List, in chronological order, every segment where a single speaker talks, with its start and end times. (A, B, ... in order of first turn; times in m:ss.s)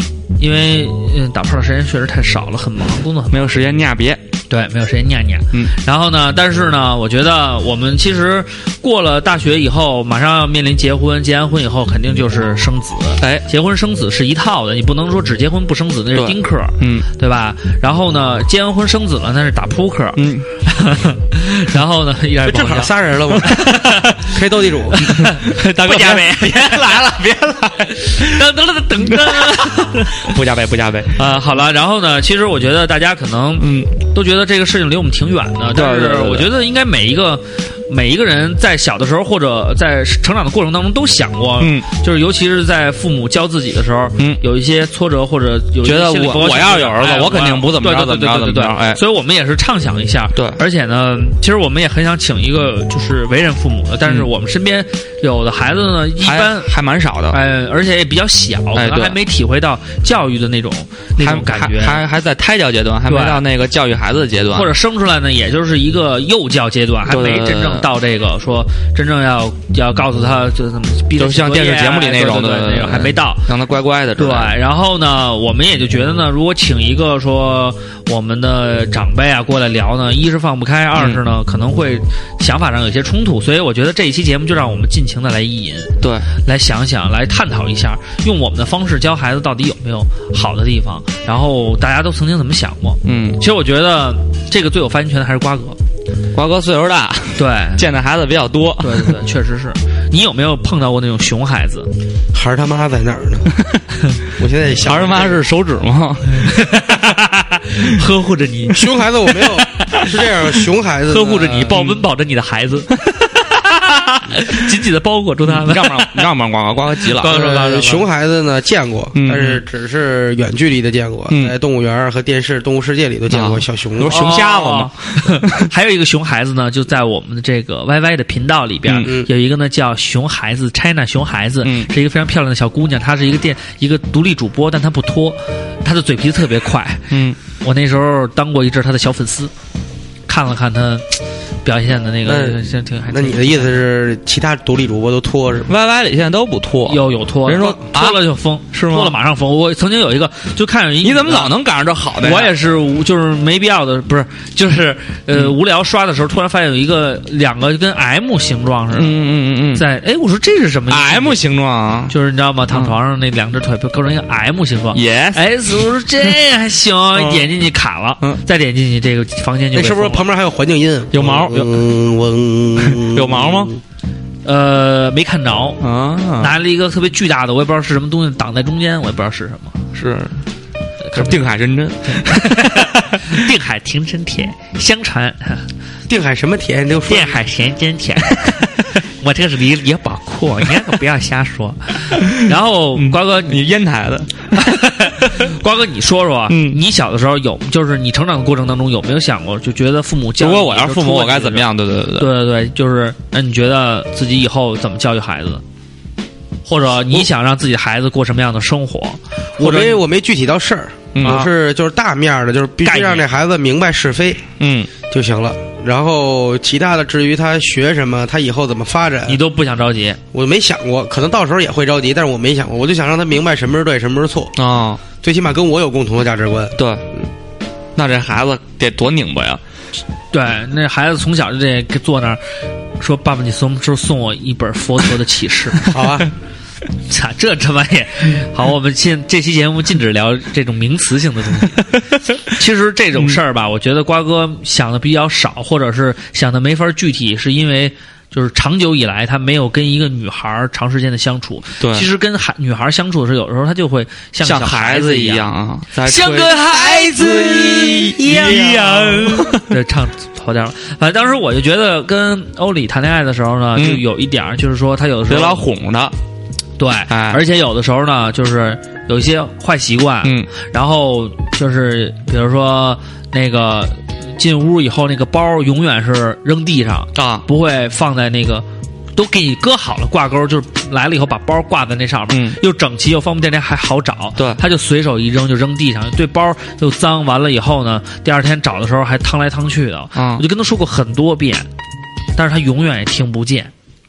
0:00.4-0:03.5 A
0:03.3-0:04.2 B
0:04.5-0:24.3 A
0:13.2-0:13.4 B
0:16.1-0:17.0 B
0:20.2-0:20.5 B
0:22.4-0:25.1 C
0:25.0-0:27.1 A
0:25.1-0:28.3 B
0:27.8-0:30.3 A
0:29.0-0:31.2 B
0:31.2-0:56.7 A
0:33.6-0:33.9 B
0:35.7-0:36.5 B
0:41.6-0:41.9 B
0:45.8-0:49.0 B
0:50.3-0:50.6 B
0:56.2-0:57.4 B
0:57.3-1:02.0 A
0:58.7-0:59.2 B
1:01.2-1:04.7 B
1:03.0-1:03.4 A
1:04.5-1:13.5 A
1:07.0-1:07.9 B
1:11.2-1:14.5 B
1:14.2-1:35.8 A
1:20.9-1:21.2 B
1:26.0-1:26.3 B
1:33.0-1:33.4 B
1:36.3-1:39.2 B
1:37.4-1:37.8 A
1:38.8-1:41.9 A
1:42.3-1:43.5 C
1:44.4-1:45.4 C
1:44.8-1:47.0 B
1:46.3-1:48.8 A
1:48.7-1:51.8 C
1:49.7-1:50.1 A
1:51.1-1:56.3 A
1:55.4-1:57.4 B
1:57.0-1:58.0 A
1:57.3-2:04.2 C
1:59.1-1:59.6 B
2:01.3-2:01.5 B
2:03.3-2:05.7 B
2:04.0-2:19.5 A
2:09.0-2:09.3 C
2:11.6-2:11.9 B
2:17.1-2:17.4 B
2:20.3-2:23.8 A
2:22.2-2:25.7 C
2:25.7-2:29.1 B
2:26.8-2:31.6 A
2:31.0-2:32.5 B
2:32.2-2:39.2 A
2:35.3-2:35.6 B
2:38.9-2:39.8 B
2:39.7-2:41.4 A
2:40.9-2:42.1 B
2:42.1-2:50.2 A
2:42.7-2:42.9 B
2:44.9-2:45.8 B
2:47.1-2:47.5 B
2:49.7-2:53.8 C
2:51.1-2:51.8 B
2:52.8-2:53.7 B
2:54.4-2:55.8 A
2:55.8-2:56.6 B
2:56.4-2:59.8 A
2:59.9-3:00.4 B
3:01.0-3:01.4 A
3:01.1-3:03.4 B
3:02.1-3:05.6 A
3:06.1-3:07.4 C
3:07.1-3:13.6 A
3:12.9-3:14.7 B
3:14.5-3:25.6 A
3:16.5-3:16.8 B
3:20.4-3:22.3 B
3:26.6-3:30.0 A
3:29.6-3:34.4 C
3:31.1-3:31.4 B
3:31.2-3:31.5 A
3:32.8-3:33.2 A
3:34.6-3:34.9 B
3:35.1-3:39.4 C
3:39.3-3:40.2 A
3:40.3-3:44.6 C
3:44.6-3:45.0 B
3:45.2-3:47.2 C
3:46.8-3:47.0 B
3:48.0-3:49.6 B
3:50.3-3:52.4 A
3:53.0-3:55.9 A
3:55.9-3:56.3 C
3:57.1-4:25.7 A
4:11.8-4:12.1 B
4:14.4-4:19.7 B
4:23.7-4:24.0 B
4:25.3-4:26.1 B
4:26.8-4:51.7 A
4:27.1-4:27.4 B
4:30.2-4:30.5 B
4:37.1-4:37.4 B
4:42.3-4:42.6 B
4:44.4-4:44.6 B
4:50.1-4:50.4 B
4:52.4-4:53.7 A